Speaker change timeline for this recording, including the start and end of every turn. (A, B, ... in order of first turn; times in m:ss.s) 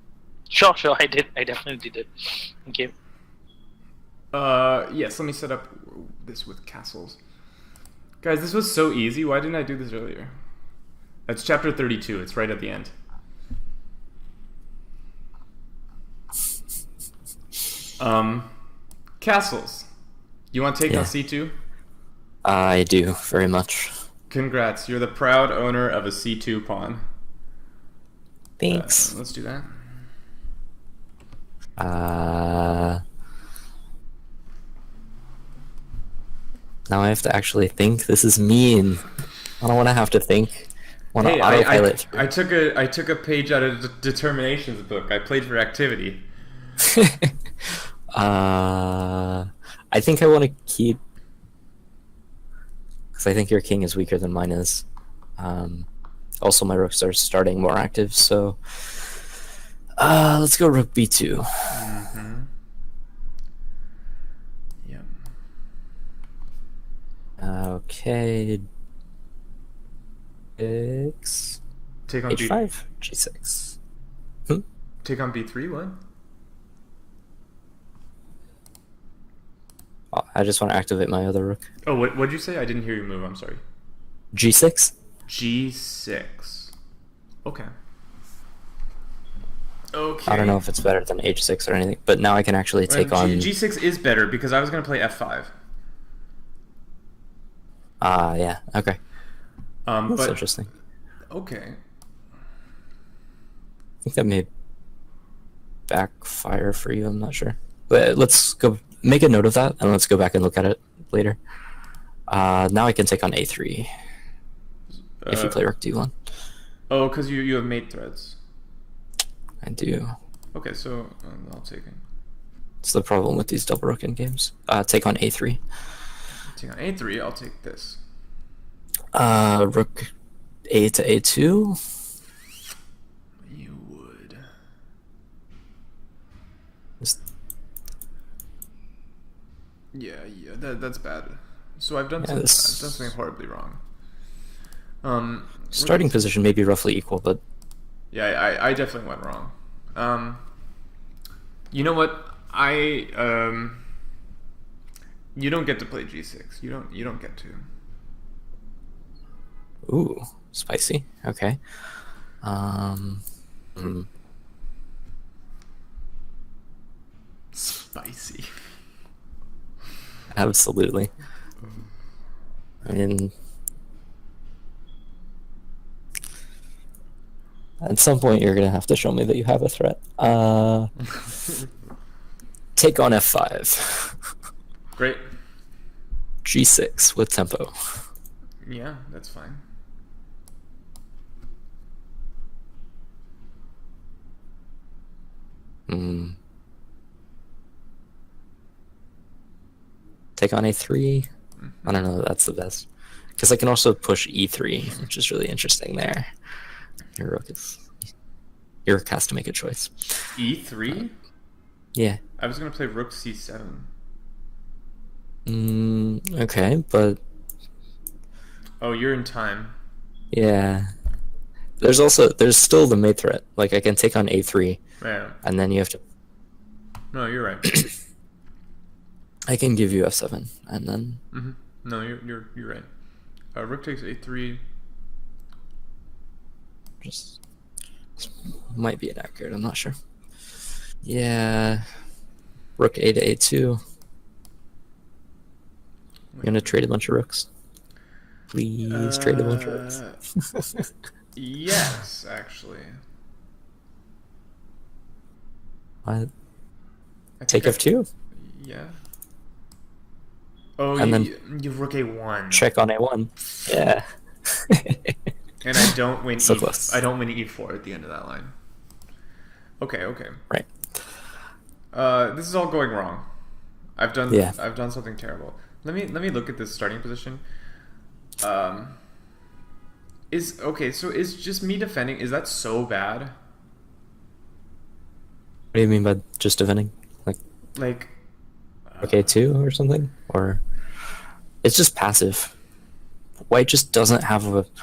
0:00.5-0:02.9 A
0:04.3-0:07.2 B
0:08.2-0:10.3 B
0:11.3-0:12.9 B
0:18.0-0:18.5 B
0:19.2-0:19.9 B
0:20.5-0:21.6 B
0:22.4-0:23.9 C
0:24.3-0:27.0 B
0:28.6-0:29.1 C
0:28.7-0:29.8 B
0:31.8-0:33.0 C
0:36.9-0:39.0 C
0:39.6-0:42.3 C
0:41.2-0:46.2 B
0:46.8-0:47.3 C
0:48.1-0:51.0 C
0:53.1-0:54.8 C
0:55.4-0:55.9 C
0:56.4-0:59.2 C
1:00.0-1:01.5 C
1:01.7-1:02.5 B
1:07.4-1:08.6 C
1:10.6-1:11.6 C
1:12.1-1:12.7 B
1:12.3-1:13.8 C
1:15.0-1:16.0 B
1:20.1-1:21.6 C
1:21.9-1:23.6 B
1:24.3-1:24.9 C
1:25.3-1:26.7 B
1:27.4-1:27.7 B
1:29.9-1:30.6 B
1:30.3-1:33.5 C
1:32.9-1:35.5 B
1:38.0-1:39.0 C
1:39.9-1:40.4 B
1:40.1-1:40.7 C
1:41.3-1:41.8 B
1:44.0-1:44.5 C
1:45.9-1:51.4 C
1:52.3-1:53.9 C
1:55.0-1:55.6 B
1:55.3-1:56.1 C
1:56.9-1:58.4 B
1:59.6-2:00.1 C
2:00.5-2:02.0 B
2:02.8-2:05.6 C
2:06.6-2:08.0 B
2:09.1-2:10.1 C
2:10.7-2:11.8 C
2:13.4-2:14.4 B
2:19.9-2:23.8 B
2:22.2-2:23.1 C
2:25.0-2:26.1 B
2:25.7-2:27.4 C
2:28.1-2:30.4 B
2:31.7-2:33.8 B
2:35.4-2:37.6 B
2:39.9-2:41.6 C
2:42.4-2:43.2 C
2:43.8-2:44.1 C
2:47.5-2:48.5 B
2:50.3-2:51.1 C
2:52.8-2:53.3 C
2:57.8-3:00.9 C
3:02.8-3:04.2 C
3:05.0-3:05.2 B
3:06.4-3:07.7 C
3:08.6-3:09.6 B
3:15.9-3:16.4 C
3:20.4-3:21.3 C
3:21.8-3:22.9 C
3:23.4-3:26.3 C
3:27.2-3:27.8 C
3:28.9-3:30.1 C
3:30.4-3:31.1 B
3:32.0-3:32.2 C
3:32.4-3:33.9 B
3:35.5-3:37.2 C
3:38.8-3:39.8 B
3:40.3-3:40.9 C
3:41.8-3:44.8 C
3:45.0-3:45.4 B
3:45.4-3:46.0 C
3:47.1-3:47.8 B
3:49.5-3:51.2 C
3:51.3-3:52.9 B
3:53.6-3:54.6 B
3:57.0-3:57.4 C
3:58.2-4:00.0 C
4:01.0-4:01.8 C
4:02.8-4:03.8 C
4:06.3-4:06.7 B
4:06.4-4:07.5 C
4:08.5-4:10.0 C
4:08.9-4:10.2 B
4:10.6-4:10.9 C
4:11.4-4:13.0 B
4:16.0-4:16.3 C
4:17.4-4:17.8 B
4:17.5-4:18.1 C
4:18.4-4:19.0 B
4:20.8-4:22.7 B
4:21.0-4:21.3 C
4:22.5-4:25.2 C
4:25.6-4:28.5 B
4:26.4-4:27.0 C
4:29.8-4:30.4 B
4:31.9-4:33.2 B
4:34.0-4:37.4 B
4:34.3-4:34.6 C
4:38.4-4:39.0 B
4:40.3-4:43.3 B
4:45.7-4:47.4 C
4:47.8-4:48.1 B
4:48.9-4:49.3 B
4:49.0-4:50.6 C
4:51.6-4:52.5 C
4:53.5-4:54.7 C